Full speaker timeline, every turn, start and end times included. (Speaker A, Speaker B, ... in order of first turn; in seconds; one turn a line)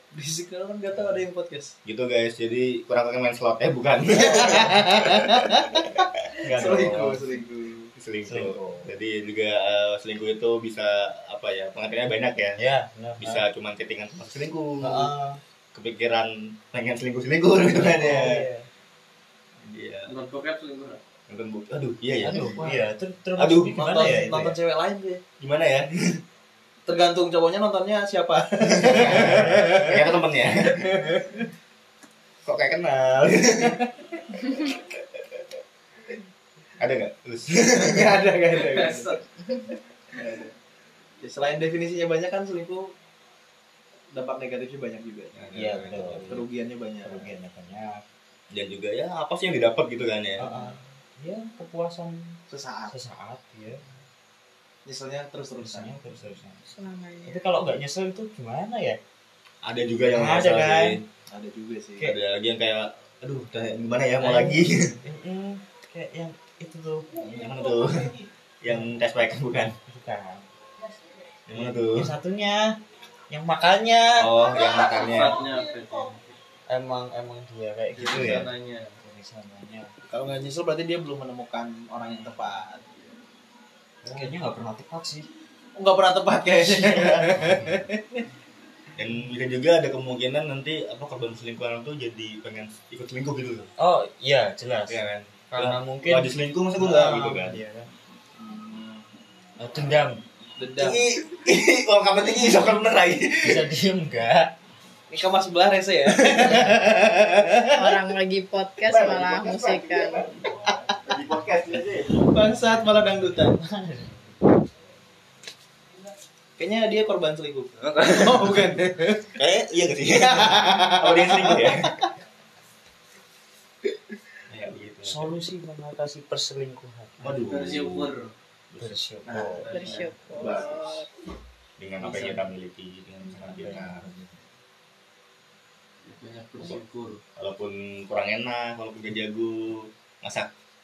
Speaker A: 0.1-1.8
Speaker B: 1.9-6.8
Speaker A: 4.1-7.9
Speaker C: 6.4-7.2
Speaker B: 8.0-12.6
Speaker C: 8.3-8.9
Speaker C: 12.6-13.4
Speaker B: 13.2-15.1
Speaker C: 14.8-15.4
Speaker B: 15.7-18.5
Speaker C: 17.8-18.7
Speaker B: 19.7-20.1
Speaker D: 20.1-21.0
Speaker B: 21.3-22.6
Speaker C: 22.2-24.6
Speaker A: 22.3-22.8
Speaker B: 23.4-23.8
Speaker A: 23.7-25.2
Speaker B: 25.4-26.2
Speaker A: 26.9-30.1
Speaker B: 28.7-30.9
Speaker C: 28.9-29.6
Speaker A: 30.6-31.5
Speaker B: 32.5-33.8
Speaker B: 34.4-35.2
Speaker B: 36.8-38.2
Speaker A: 37.8-39.2
Speaker D: 38.6-39.2
Speaker A: 40.1-40.5
Speaker A: 41.2-42.9
Speaker A: 44.1-45.4
Speaker B: 45.4-46.3
Speaker C: 45.5-46.4
Speaker A: 46.2-47.3
Speaker C: 47.0-48.0
Speaker B: 48.5-50.7
Speaker C: 50.4-53.8
Speaker A: 52.5-52.9
Speaker A: 54.9-56.0
Speaker C: 55.6-56.7
Speaker E: 56.7-57.4
Speaker C: 57.2-59.0
Speaker B: 59.6-61.1
Speaker C: 60.1-61.0
Speaker A: 61.3-62.1
Speaker B: 62.0-65.0
Speaker C: 64.2-67.1
Speaker B: 67.2-69.8
Speaker C: 69.8-70.5
Speaker B: 71.5-72.1
Speaker C: 71.7-72.8
Speaker C: 73.3-74.4
Speaker B: 74.2-75.4
Speaker D: 74.7-76.3
Speaker C: 76.7-79.9
Speaker D: 78.0-79.0
Speaker B: 78.0-78.5
Speaker A: 80.1-82.9
Speaker C: 84.0-85.3
Speaker A: 85.8-88.2
Speaker C: 86.9-87.4
Speaker B: 89.0-93.7
Speaker C: 93.8-97.9
Speaker B: 94.9-97.6
Speaker A: 98.4-99.0
Speaker C: 99.6-100.2
Speaker A: 100.6-101.1
Speaker B: 100.8-103.7
Speaker C: 103.4-104.5
Speaker A: 105.1-108.0
Speaker E: 107.7-110.3
Speaker B: 108.8-112.3
Speaker A: 112.2-113.6
Speaker C: 113.6-114.1
Speaker A: 116.6-119.4
Speaker B: 117.8-118.7
Speaker B: 119.3-122.0
Speaker A: 120.1-122.1
Speaker B: 124.5-125.3
Speaker C: 125.0-127.3
Speaker B: 127.2-128.2
Speaker D: 127.3-128.3
Speaker C: 128.8-129.7
Speaker A: 129.3-131.0
Speaker D: 129.6-130.2
Speaker E: 129.7-131.1
Speaker B: 131.8-134.1
Speaker C: 133.6-134.1
Speaker A: 133.6-134.1
Speaker D: 136.0-137.2
Speaker B: 137.4-140.5